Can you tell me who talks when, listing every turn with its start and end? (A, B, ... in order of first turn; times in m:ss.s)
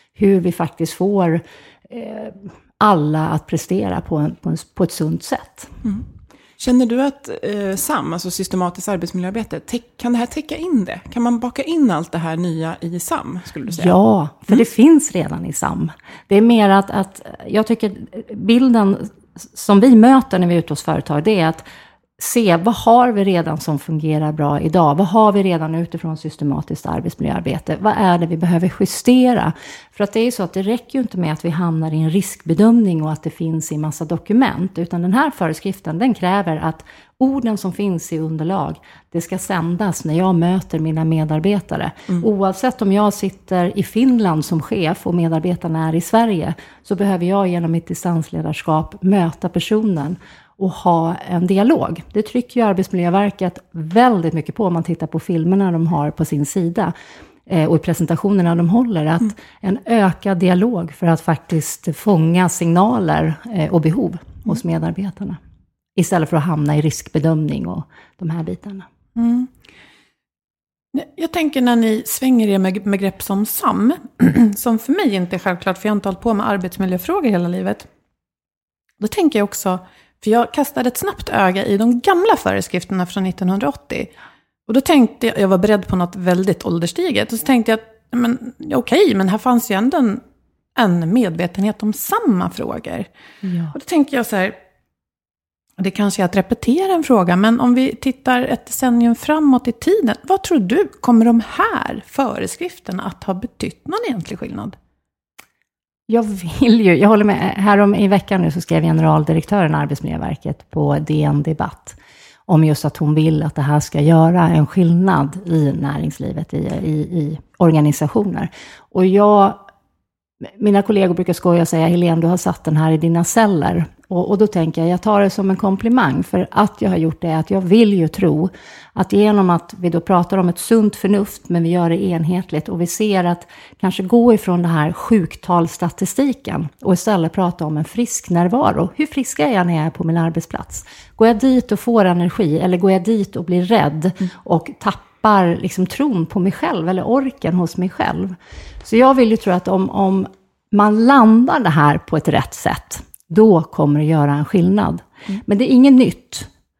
0:00.2-0:05.7 A
0:06.6-0:14.0 B
0:13.7-0:21.6 A
0:22.2-0:56.9 A
0:57.5-1:05.4 A
1:06.0-1:08.8 A
1:09.2-1:09.5 C
1:10.9-1:17.9 C
1:19.0-1:24.1 C
1:24.7-1:30.2 C
1:30.8-1:33.1 C
1:33.4-1:33.7 A
1:33.7-1:34.6 C
1:35.8-1:44.8 C
1:46.1-1:52.0 A
1:52.5-1:59.6 A
2:00.6-2:36.5 A